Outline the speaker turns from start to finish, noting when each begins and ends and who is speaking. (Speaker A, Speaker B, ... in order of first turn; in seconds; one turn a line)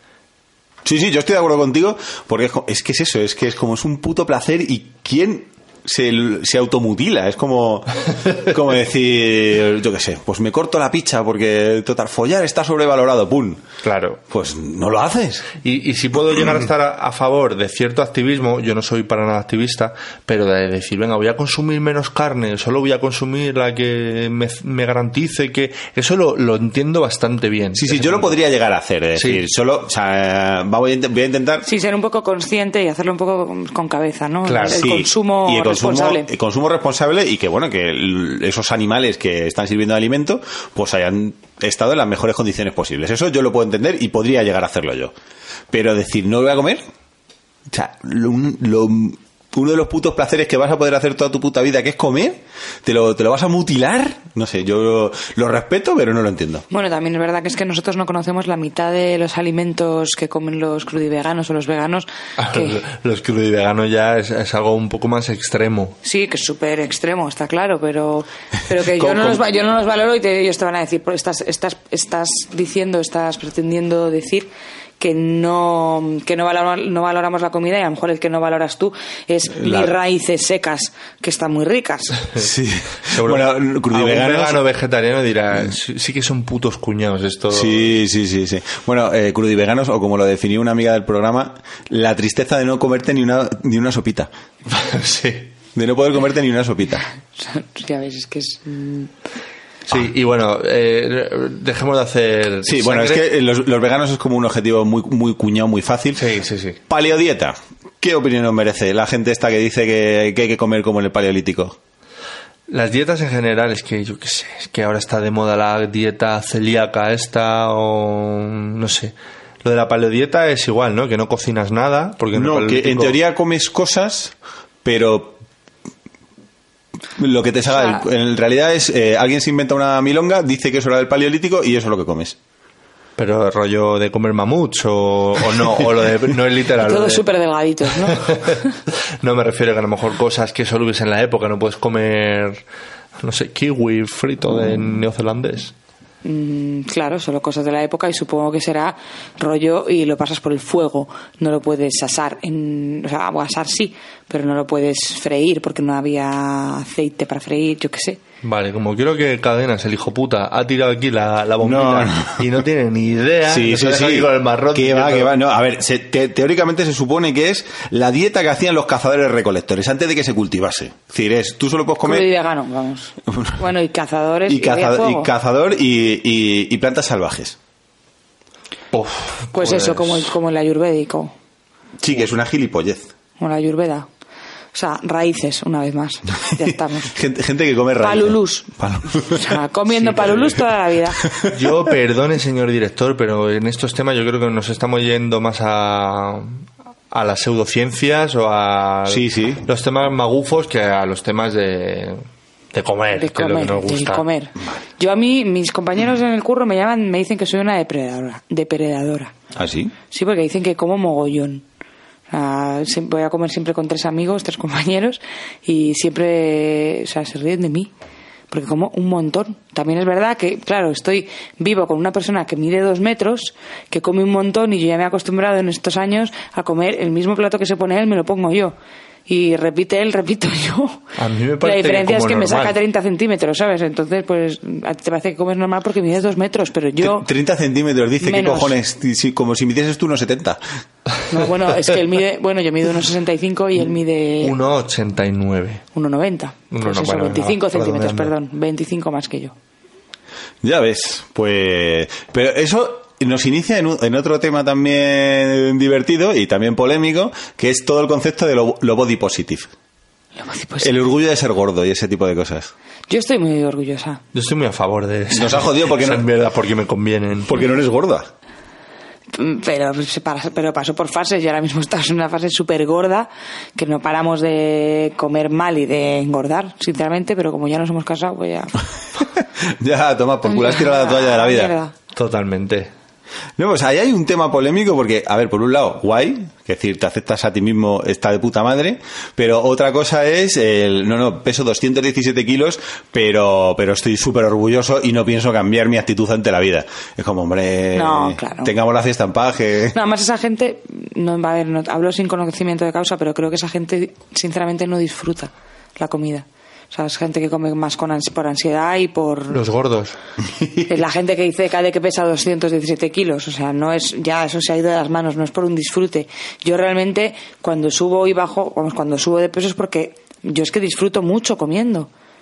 Speaker A: 0.8-13.6
Speaker B: 13.8-14.2
Speaker A: 14.3-15.5
Speaker B: 15.6-28.3
Speaker A: 27.7-31.6
Speaker B: 29.1-29.4
Speaker C: 31.6-36.3
Speaker B: 34.5-34.9
Speaker A: 34.7-45.1
Speaker A: 45.7-46.8
Speaker A: 47.7-56.6
Speaker C: 56.7-62.8
Speaker B: 62.4-66.0
Speaker C: 66.0-82.2
Speaker A: 79.5-79.9
Speaker A: 82.3-84.6
Speaker B: 83.1-87.9
Speaker A: 87.5-94.3
Speaker B: 94.7-95.5
Speaker A: 95.7-97.0
Speaker C: 97.4-99.1
Speaker B: 99.9-103.2
Speaker A: 102.6-106.2
Speaker B: 106.2-106.8
Speaker A: 106.9-111.8
Speaker B: 112.7-123.2
Speaker A: 122.3-125.4
Speaker A: 127.2-132.3
Speaker B: 133.2-137.2
Speaker C: 136.8-138.7
Speaker B: 138.1-138.6
Speaker B: 139.2-142.6
Speaker B: 143.2-145.7
Speaker C: 146.2-158.2
Speaker B: 158.4-165.3
Speaker A: 161.6-162.5
Speaker A: 163.5-172.3
Speaker C: 172.0-175.3
Speaker A: 173.3-173.6
Speaker A: 174.5-177.6
Speaker B: 178.9-180.3
Speaker C: 179.5-181.3
Speaker A: 182.0-183.1
Speaker C: 183.4-184.1
Speaker C: 184.7-187.1
Speaker A: 186.6-189.6
Speaker C: 187.9-188.7
Speaker C: 189.2-191.2
Speaker B: 189.9-190.6
Speaker B: 191.5-202.2
Speaker A: 199.1-199.6
Speaker B: 202.7-204.2
Speaker C: 203.2-209.3
Speaker A: 209.5-209.9
Speaker C: 210.1-211.6
Speaker C: 212.3-217.9
Speaker C: 218.5-228.7
Speaker C: 229.3-231.0
Speaker B: 231.2-232.8
Speaker C: 231.6-237.3
Speaker A: 237.0-240.6
Speaker C: 238.2-238.7
Speaker C: 241.3-244.6
Speaker B: 244.4-245.8
Speaker C: 245.9-249.5
Speaker B: 246.7-248.3
Speaker A: 250.6-259.7
Speaker C: 260.4-260.9
Speaker A: 260.8-262.7
Speaker C: 263.1-264.2
Speaker B: 264.3-267.5
Speaker A: 265.3-266.2
Speaker A: 267.4-268.3
Speaker C: 269.3-278.8
Speaker A: 279.4-281.7
Speaker C: 280.5-281.9
Speaker B: 282.1-282.9
Speaker A: 283.6-300.0
Speaker C: 297.9-298.7
Speaker C: 299.9-309.6
Speaker B: 309.5-310.1
Speaker C: 310.9-322.1